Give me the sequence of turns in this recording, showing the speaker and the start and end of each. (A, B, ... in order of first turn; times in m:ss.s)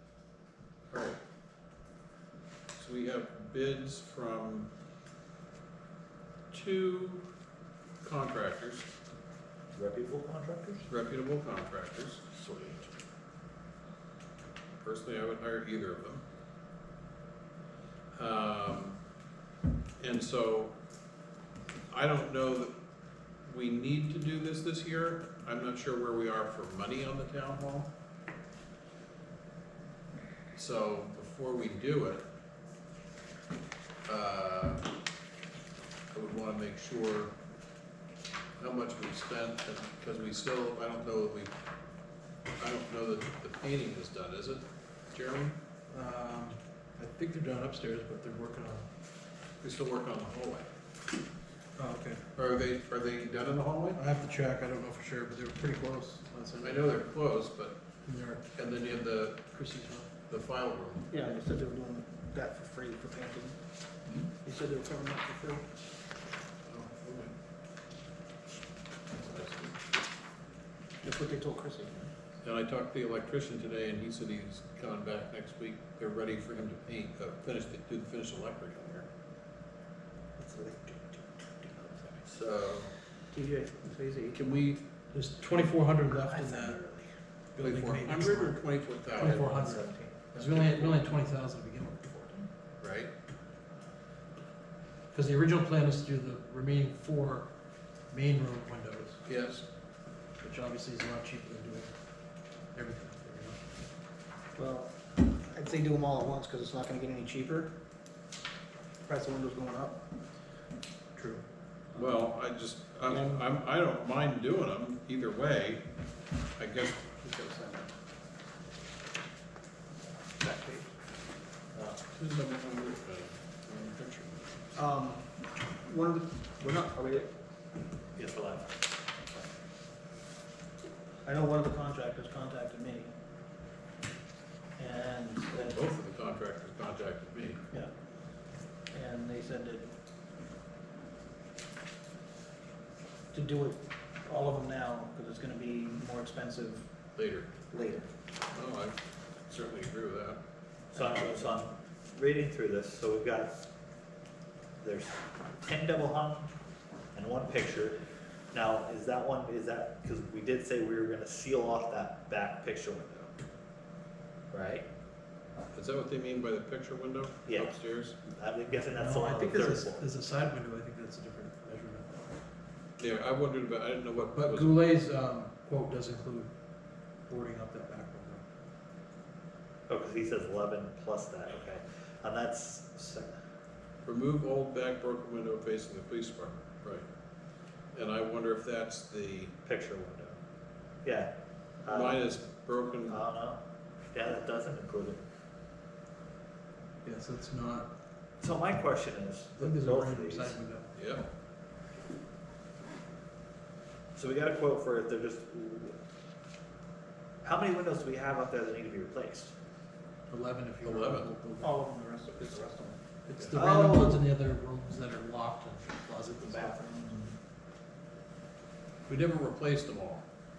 0:00.9-0:01.2 A
0:02.7-0:04.7 A
0:06.5-0:07.2 A
0:08.0-0:08.8 A
0:09.7-0:10.9 B
0:10.9-0:12.2 A
0:12.4-0:12.9 B
0:14.8-0:16.2 A
0:18.1-0:19.0 A
0:20.0-0:20.7 A
0:21.9-0:22.7 A
0:23.4-0:27.9 A
0:30.5-0:32.2 A
0:34.1-0:34.8 A
0:36.1-0:37.3 A
0:38.6-0:41.5 A
0:42.6-0:45.6 A
0:45.9-0:48.9 C
0:49.6-0:50.7 A
0:51.8-0:52.2 C
0:52.4-0:54.0 A
0:53.9-0:56.9 C
0:56.6-0:57.8 A
0:58.0-0:58.4 C
0:58.6-0:59.4 A
0:59.5-1:00.1 C
1:00.3-1:01.2 A
1:01.1-1:03.6 D
1:04.4-1:05.6 D
1:06.7-1:07.3 A
1:09.1-1:09.8 A
1:11.0-1:12.1 D
1:12.4-1:19.1 A
1:20.4-1:21.7 D
1:21.8-1:22.7 B
1:22.4-1:22.9 A
1:23.3-1:24.4 D
1:24.3-1:24.8 A
1:25.1-1:26.8 C
1:26.1-1:27.1 B
1:27.5-1:28.6 C
1:27.6-1:29.6 A
1:29.1-1:30.3 B
1:29.2-1:32.5 C
1:30.3-1:31.0 A
1:32.8-1:33.1 A
1:35.1-1:37.5 C
1:38.1-1:39.2 C
1:39.2-1:39.6 A
1:40.4-1:41.9 C
1:42.7-1:43.6 C
1:44.6-1:47.7 D
1:49.0-1:50.0 D
1:51.1-1:51.4 C
1:51.9-1:52.2 D
1:51.9-1:55.8 A
1:53.0-1:53.4 D
1:56.6-1:57.1 A
1:57.2-1:57.9 D
2:00.4-2:00.9 D
2:01.7-2:02.0 B
2:02.1-2:04.4 A
2:04.7-2:07.3 D
2:08.1-2:08.7 B
2:11.2-2:13.1 D
2:14.8-2:15.8 D
2:15.5-2:17.6 A
2:18.9-2:19.9 D
2:23.3-2:26.8 D
2:27.2-2:27.5 A
2:27.7-2:28.1 D
2:28.5-2:29.0 A
2:29.5-2:30.4 A
2:30.9-2:31.6 D
2:30.9-2:33.5 B
2:34.8-2:36.5 B
2:37.1-2:38.0 B
2:38.5-2:43.3 B
2:44.5-2:44.8 B
2:45.7-2:48.2 A
2:47.5-2:47.7 B
2:48.3-2:50.1 B
2:48.9-2:52.1 C
2:53.0-2:54.8 A
2:54.3-2:56.5 C
2:57.3-2:58.4 C
2:59.9-3:03.3 B
3:04.0-3:07.0 A
3:07.9-3:09.5 A
3:09.6-3:10.4 B
3:11.0-3:11.3 B
3:11.8-3:12.2 B
3:11.9-3:13.2 A
3:13.0-3:13.6 B
3:14.1-3:15.2 B
3:17.0-3:17.9 C
3:18.4-3:20.6 B
3:19.6-3:20.9 C
3:20.9-3:21.2 A
3:24.1-3:26.0 B
3:27.4-3:29.5 B
3:30.3-3:31.8 C
3:30.8-3:31.3 A
3:31.6-3:33.0 D
3:33.2-3:36.8 C
3:33.5-3:34.2 B
3:36.4-3:37.4 D
3:39.1-3:40.2 A